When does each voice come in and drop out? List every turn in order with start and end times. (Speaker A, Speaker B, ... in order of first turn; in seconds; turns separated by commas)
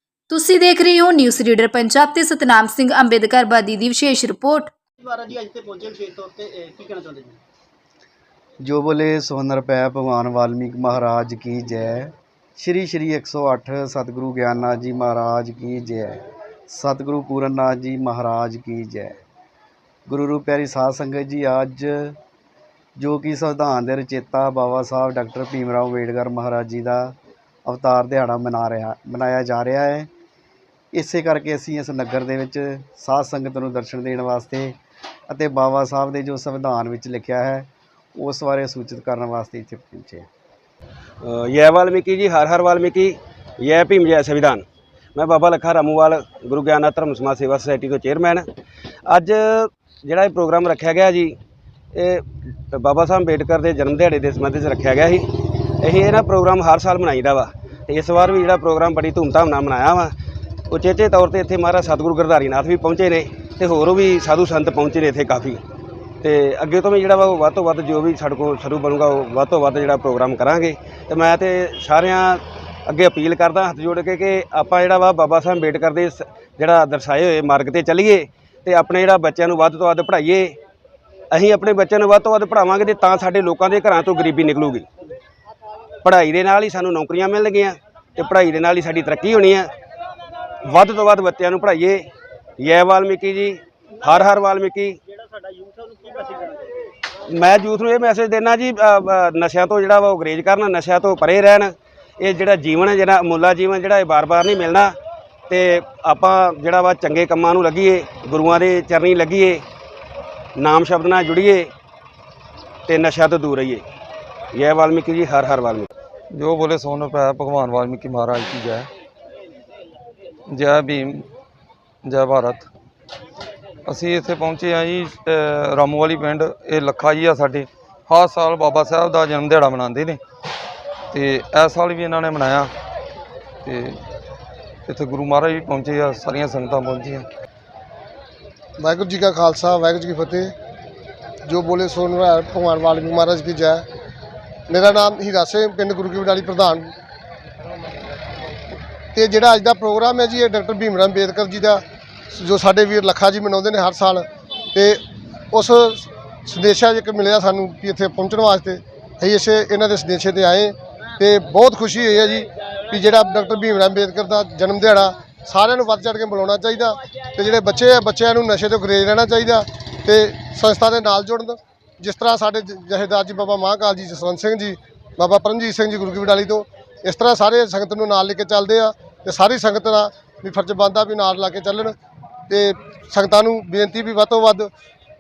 Speaker A: 0.3-4.7, Speaker B: 5.0-7.4, Speaker C: 8.6-19.2, Speaker C: 20.1-22.2, Speaker C: 23.0-30.1, Speaker C: 30.9-34.8, Speaker C: 35.3-40.3, Speaker D: 41.2-44.6, Speaker D: 45.1-48.5, Speaker D: 49.1-51.4, Speaker D: 51.9-60.1, Speaker D: 60.7-65.6, Speaker D: 66.2-80.6, Speaker D: 81.3-84.9, Speaker D: 86.0-89.7, Speaker D: 90.7-92.1, Speaker D: 92.6-95.0, Speaker B: 95.4-96.7, Speaker D: 97.3-105.0, Speaker D: 105.5-109.6, Speaker D: 110.6-111.7, Speaker D: 112.9-113.8, Speaker D: 114.5-115.9, Speaker E: 116.3-118.9, Speaker E: 120.5-121.3, Speaker E: 122.0-122.7, Speaker E: 123.9-130.2, Speaker E: 131.1-132.7, Speaker E: 133.7-134.0, Speaker E: 134.9-137.3, Speaker F: 138.8-140.5, Speaker F: 141.4-143.9, Speaker F: 144.7-146.9, Speaker F: 149.1-181.9, Speaker F: 182.5-184.7